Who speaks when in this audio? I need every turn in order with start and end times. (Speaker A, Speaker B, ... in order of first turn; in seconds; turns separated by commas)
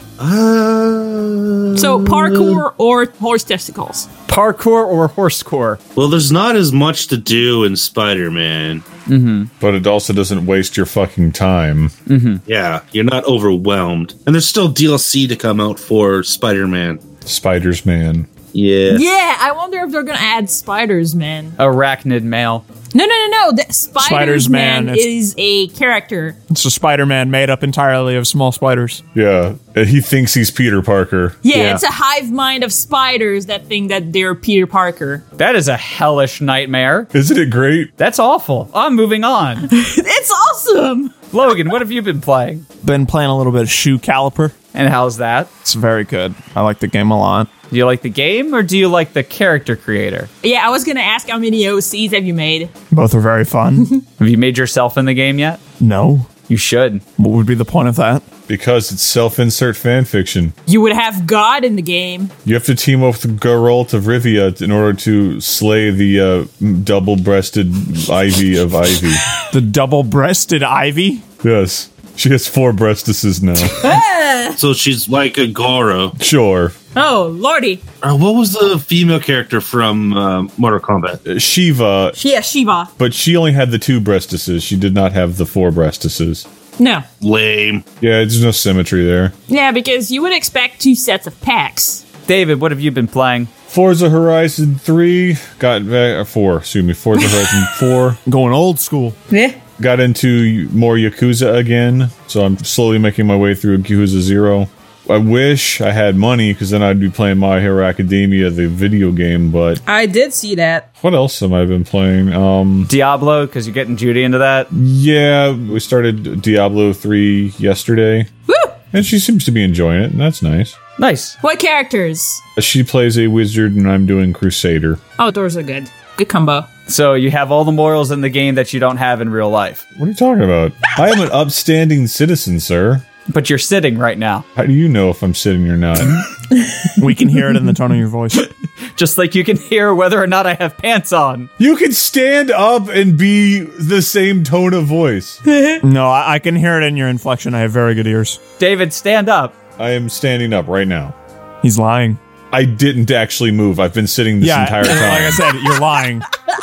Speaker A: 0.2-2.6, Speaker B: 1.8-4.1, Speaker C: 4.3-5.8, Speaker A: 6.0-8.8, Speaker C: 9.1-9.5, Speaker D: 9.6-11.9, Speaker C: 12.1-12.4, Speaker A: 12.5-17.0, Speaker D: 17.2-18.3, Speaker A: 18.5-19.0, Speaker B: 18.9-21.6, Speaker C: 21.6-22.6, Speaker B: 22.9-26.4, Speaker E: 24.0-25.1, Speaker E: 26.5-29.0, Speaker D: 29.1-31.8, Speaker B: 31.4-35.2, Speaker C: 35.4-37.1, Speaker D: 37.1-37.9, Speaker C: 38.0-39.7, Speaker B: 39.7-41.1, Speaker C: 41.3-42.6, Speaker E: 42.8-44.5, Speaker C: 44.7-45.5, Speaker E: 45.6-47.5, Speaker C: 47.7-50.3, Speaker B: 50.4-52.7, Speaker E: 52.9-53.9, Speaker C: 54.2-55.6, Speaker E: 55.8-56.3, Speaker C: 56.5-57.0, Speaker E: 57.2-58.2, Speaker D: 58.5-60.5, Speaker B: 60.7-62.3, Speaker D: 62.4-69.3, Speaker E: 69.5-71.2, Speaker D: 71.4-73.8, Speaker B: 73.8-74.6, Speaker A: 74.6-76.2, Speaker D: 76.2-76.7, Speaker B: 76.9-77.8, Speaker A: 78.0-81.2, Speaker D: 81.2-82.2, Speaker B: 82.2-82.9, Speaker D: 83.0-86.5, Speaker B: 86.8-87.1, Speaker A: 87.2-87.8, Speaker D: 88.0-89.3, Speaker B: 89.5-92.0, Speaker C: 92.3-93.5, Speaker D: 93.7-98.2, Speaker E: 98.2-99.2, Speaker B: 99.3-99.6, Speaker D: 99.8-109.8, Speaker B: 109.8-110.9, Speaker D: 111.0-112.9, Speaker C: 112.9-114.7, Speaker D: 114.7-118.3, Speaker B: 118.5-118.8, Speaker D: 118.9-120.8, Speaker C: 121.0-121.3, Speaker B: 121.4-122.4, Speaker D: 122.6-125.0, Speaker B: 125.2-126.7, Speaker C: 126.9-129.8, Speaker D: 130.0-133.0, Speaker C: 133.3-134.4, Speaker D: 134.6-136.2, Speaker E: 137.0-138.5, Speaker C: 138.9-141.5, Speaker D: 141.6-145.4, Speaker B: 145.5-145.8, Speaker E: 145.8-148.4, Speaker C: 148.6-149.5, Speaker D: 149.8-151.2, Speaker E: 151.6-152.2, Speaker D: 152.5-155.5, Speaker E: 154.4-156.2